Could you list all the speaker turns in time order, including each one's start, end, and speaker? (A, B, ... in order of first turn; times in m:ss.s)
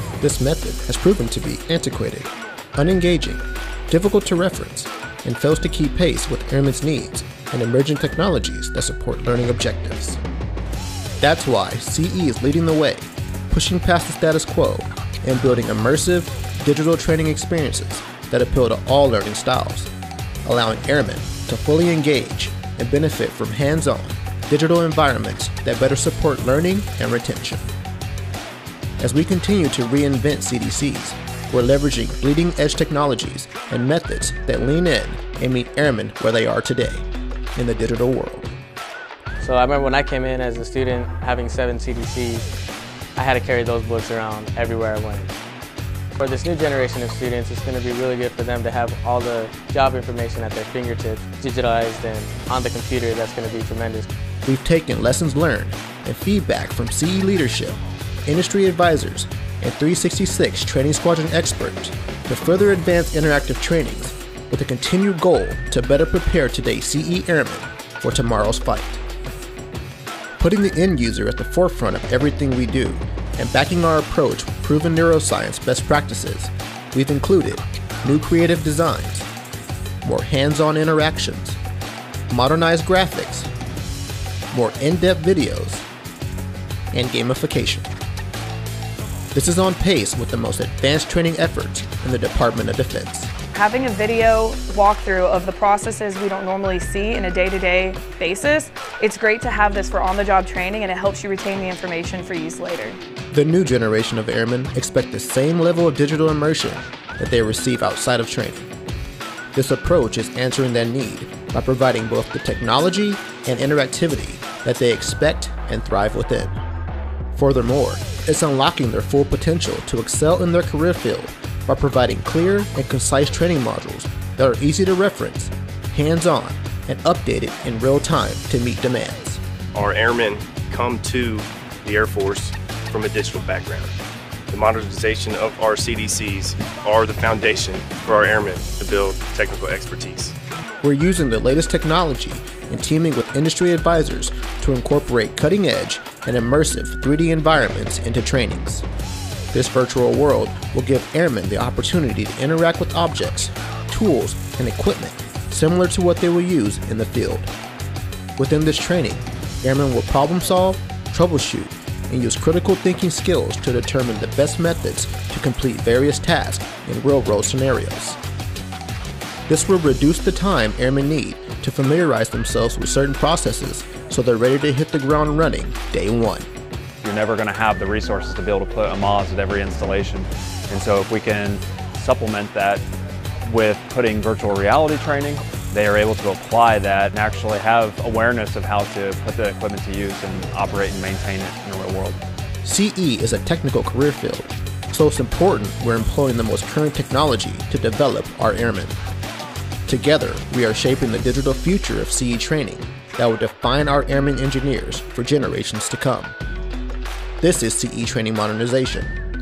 0:00.2-0:10.2 A
0:11.2-0:19.9 A
0:20.4-0:27.7 A
0:29.0-0:38.5 A
0:39.4-0:42.5 B
0:43.2-0:45.4 B
0:46.2-0:54.1 B
0:54.4-1:09.0 A
1:10.4-1:19.3 A
1:20.0-1:21.6 A
1:22.3-1:23.5 A
1:24.5-1:25.9 A
1:26.9-1:27.9 A
1:29.3-1:33.3 A
1:33.5-1:43.0 C
1:43.3-1:48.7 A
1:49.5-1:56.6 A
1:57.3-2:09.4 A
2:09.8-2:13.9 D
2:14.5-2:20.4 D
2:20.8-2:28.8 A
2:29.5-2:37.5 A
2:38.4-2:48.2 A
2:49.5-2:56.5 A
2:57.0-3:02.9 E
3:03.4-3:12.2 E
3:12.6-3:19.0 A
3:19.9-3:26.4 A
3:27.4-3:29.2 A